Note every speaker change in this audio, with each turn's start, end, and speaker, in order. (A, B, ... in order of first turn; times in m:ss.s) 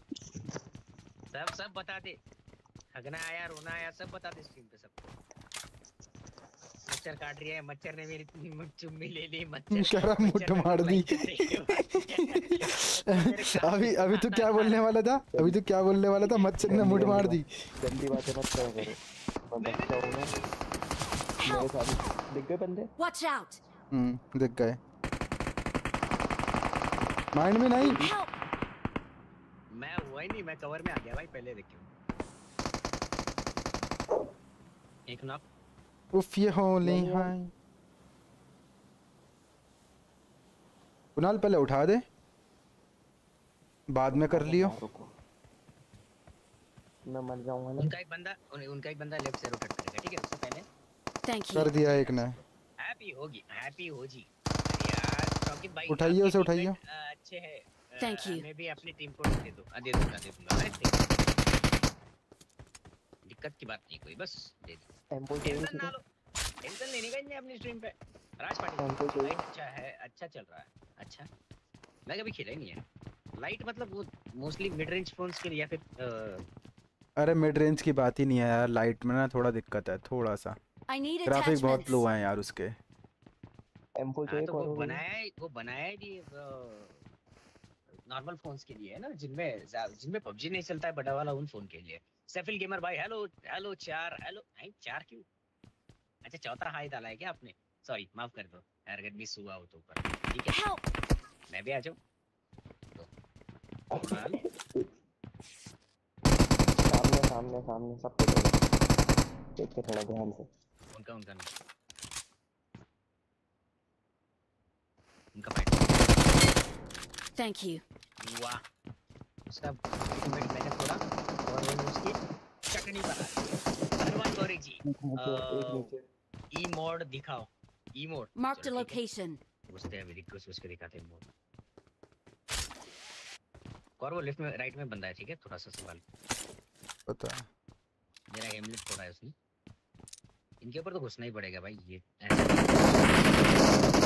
0:01.3-0:02.2 A
0:02.9-0:05.1 A
0:06.8-0:14.9 A
0:09.7-0:17.4 B
0:15.3-0:15.6 C
0:16.2-0:16.7 A
0:16.6-0:20.4 C
0:19.6-0:20.5 A
0:21.4-0:21.7 D
0:21.4-0:22.9 C
0:23.0-0:23.6 D
0:23.9-0:24.8 B
0:27.3-0:28.1 B
0:27.8-0:28.3 D
0:29.7-0:31.9 A
0:35.1-0:35.4 A
0:36.1-0:37.5 B
0:36.8-0:37.3 C
0:41.2-0:42.0 B
0:43.9-0:44.8 B
0:44.1-0:45.1 C
0:47.1-0:47.9 C
0:47.8-0:50.6 A
0:51.2-0:51.7 D
0:51.5-0:52.4 B
0:51.7-1:01.1 A
0:55.9-0:56.8 B
0:58.0-0:58.4 D
1:03.2-1:04.9 A
1:05.1-1:05.9 C
1:05.4-1:06.0 A
1:06.6-1:11.3 A
1:08.8-1:09.4 C
1:12.1-1:12.8 A
1:13.4-1:16.4 A
1:17.2-1:20.6 B
1:20.9-1:22.1 D
1:21.2-1:22.8 B
1:24.0-1:25.0 C
1:24.3-1:27.0 A
1:28.1-1:35.2 A
1:36.2-1:40.6 A
1:41.5-1:42.0 A
1:44.0-1:44.4 A
1:44.0-1:44.9 C
1:46.8-1:48.6 C
1:49.6-1:50.5 C
1:50.9-1:51.5 A
1:55.3-1:56.1 A
1:57.4-1:57.8 D
1:58.2-1:58.6 A
1:59.5-2:02.2 A
2:02.7-2:05.9 A
2:04.8-2:06.0 C
2:06.5-2:09.0 A
2:08.4-2:09.4 D
2:09.7-2:11.2 A
2:14.0-2:16.0 A
2:17.1-2:17.4 B
2:18.3-2:19.3 A
2:20.6-2:23.4 A